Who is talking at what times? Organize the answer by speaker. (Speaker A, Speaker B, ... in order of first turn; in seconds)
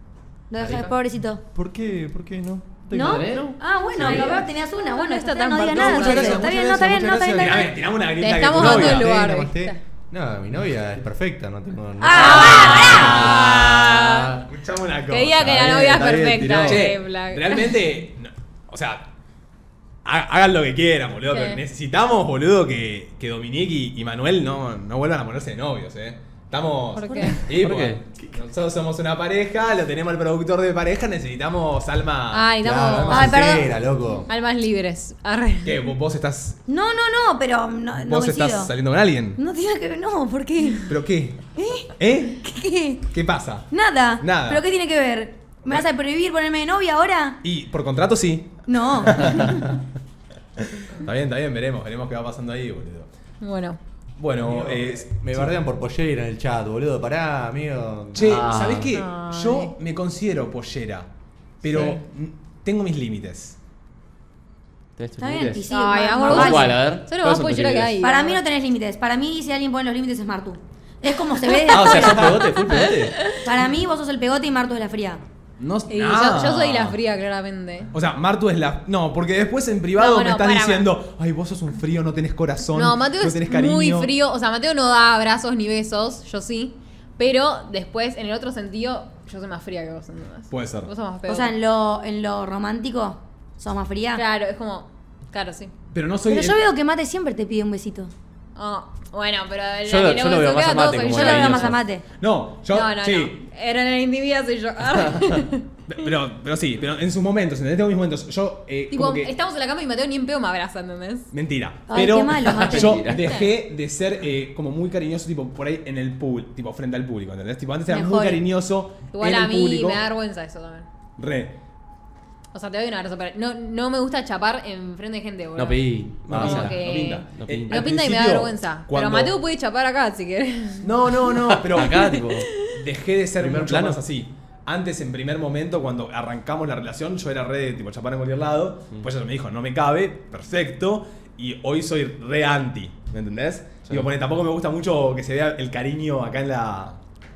Speaker A: 0.5-1.4, 2.9-7.7, 12.0-13.4, 33.1-33.7, 36.7-38.7, 39.4-40.9, 41.5-43.0, 43.7-47.4, 48.7-49.6, 65.2-66.8, 68.0-72.6, 73.3-75.2, 91.3-94.2, 96.3-98.1, 101.0-102.0, 111.9-113.1, 117.9-118.4
Speaker B: 0.6-0.9, 4.0-6.4, 8.2-9.8, 12.1-14.3, 15.1-17.8, 21.3-21.6, 26.9-27.4, 32.3-33.4, 34.3-35.9, 53.4-53.8, 58.9-59.7, 65.7-68.4, 71.5-73.4, 75.9-77.9, 80.0-80.9, 82.7-91.5, 94.1-95.7, 98.5-101.7, 102.7-105.7, 108.9-111.3, 119.1-120.9, 122.5-131.1, 131.8-132.7
Speaker C: 1.5-3.5, 5.8-7.8, 8.6-14.2, 32.6-34.3, 54.4-58.4
Speaker D: 3.0-4.2, 12.1-13.6, 15.4-16.9, 27.5-28.1, 58.2-58.9, 61.7-62.0, 65.0-65.6, 66.2-68.0, 71.7-73.3, 99.8-101.8, 112.5-113.3, 125.5-127.9, 131.5-132.5, 133.4-134.0
Speaker E: 5.7-6.5, 7.3-9.1, 14.4-15.8, 16.6-19.1, 20.0-32.5, 35.6-36.6, 38.0-39.4, 40.9-42.4, 43.1-44.6, 47.4-49.6, 50.7-53.1, 54.2-55.5, 58.1-61.1, 61.6-63.6, 75.6-77.0, 77.9-84.1, 90.5-90.9, 95.9-96.6, 102.2-103.4, 105.9-109.3, 111.3-120.0, 121.2-121.6, 126.3-129.3, 130.8-147.0